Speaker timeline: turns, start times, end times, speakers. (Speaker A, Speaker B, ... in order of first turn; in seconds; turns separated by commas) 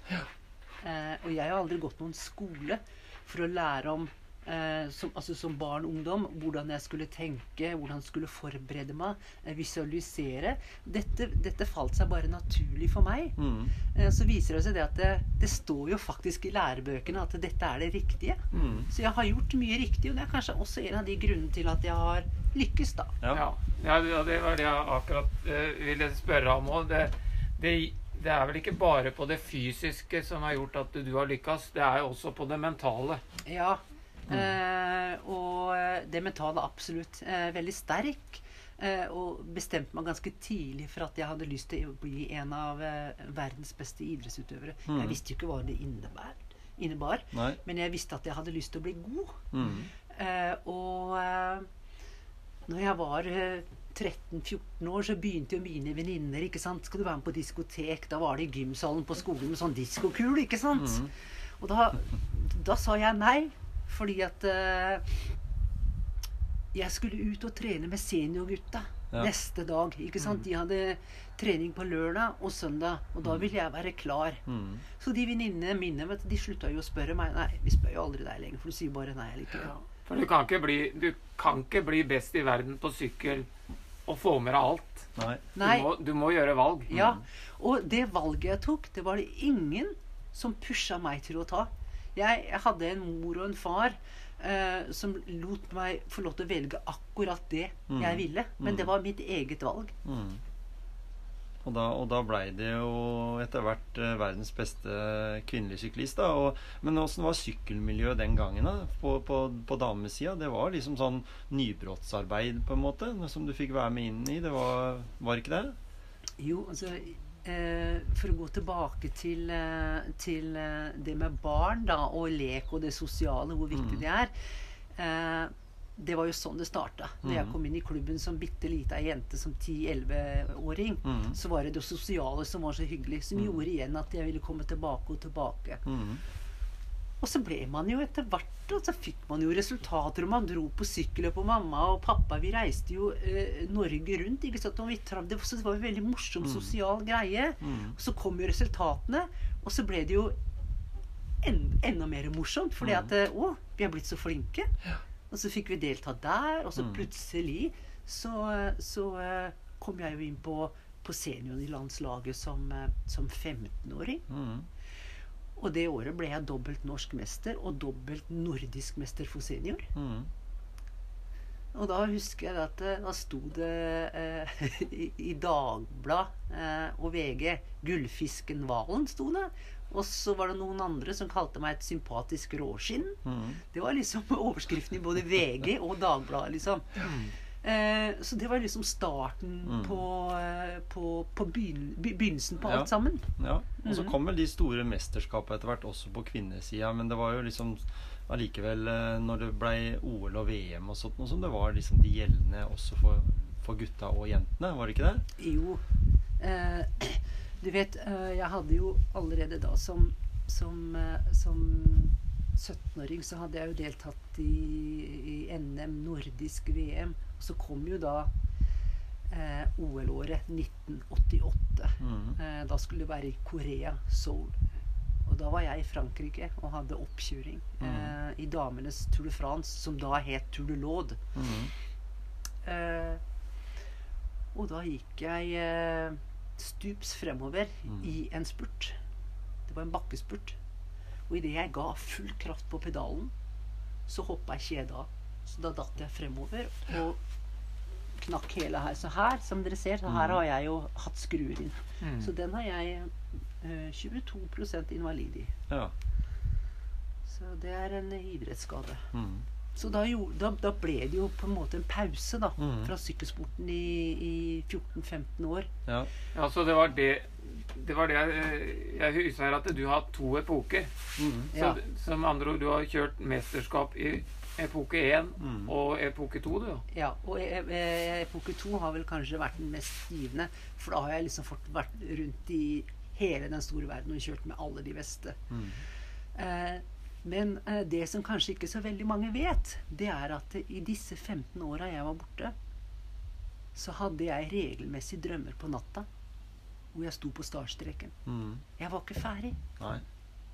Speaker A: 0.8-23.2, Speaker B: 13.4-13.7, Speaker B: 18.5-18.9, Speaker C: 18.6-18.8, Speaker C: 23.3-33.2, Speaker A: 33.5-49.5, Speaker B: 44.9-45.2, Speaker B: 47.3-47.6, Speaker B: 49.5-49.9, Speaker A: 50.1-51.7, Speaker A: 52.7-61.1, Speaker B: 60.8-61.1, Speaker A: 61.6-65.2, Speaker A: 66.7-74.4, Speaker B: 74.5-74.8, Speaker A: 75.0-79.7, Speaker C: 79.6-83.5, Speaker C: 84.1-86.9, Speaker B: 85.2-85.4, Speaker A: 85.5-85.9, Speaker A: 86.9-100.0, Speaker B: 86.9-87.2, Speaker B: 97.9-98.9, Speaker B: 100.0-100.4, Speaker B: 101.6-115.8, Speaker A: 116.4-124.3, Speaker B: 123.7-124.0, Speaker A: 125.0-135.8, Speaker B: 127.2-127.6, Speaker B: 131.1-131.4, Speaker B: 135.8-136.2, Speaker A: 137.2-150.3, Speaker B: 146.4-146.7, Speaker B: 147.6-148.0, Speaker A: 151.4-154.7, Speaker B: 152.8-153.1, Speaker A: 155.3-164.2, Speaker B: 156.8-157.1, Speaker B: 164.3-164.7, Speaker A: 165.6-169.9, Speaker B: 169.9-170.3, Speaker A: 171.7-183.2, Speaker B: 183.2-183.6, Speaker A: 183.7-187.0, Speaker C: 187.0-187.3, Speaker A: 187.6-193.3, Speaker B: 189.7-190.1, Speaker B: 192.6-205.2, Speaker A: 193.8-194.2, Speaker A: 205.4-205.8, Speaker A: 206.4-218.3, Speaker A: 219.3-224.6, Speaker B: 222.0-222.4, Speaker A: 225.3-231.2, Speaker B: 227.8-228.1, Speaker B: 231.3-231.7, Speaker A: 232.7-233.2, Speaker A: 234.5-239.0, Speaker A: 239.7-240.6, Speaker A: 241.3-243.3, Speaker A: 244.1-247.2, Speaker A: 248.2-255.5, Speaker B: 250.1-250.4, Speaker C: 252.0-252.3, Speaker A: 257.3-259.1, Speaker B: 259.1-259.5, Speaker A: 259.8-265.7, Speaker B: 262.6-262.9, Speaker C: 266.3-270.9, Speaker B: 271.2-271.5, Speaker A: 271.5-271.8, Speaker C: 271.5-276.8, Speaker B: 275.4-275.7, Speaker A: 276.9-285.4, Speaker B: 285.5-285.8, Speaker A: 286.4-292.6, Speaker A: 293.8-296.1, Speaker A: 296.9-298.1, Speaker B: 298.3-298.6, Speaker A: 298.8-299.6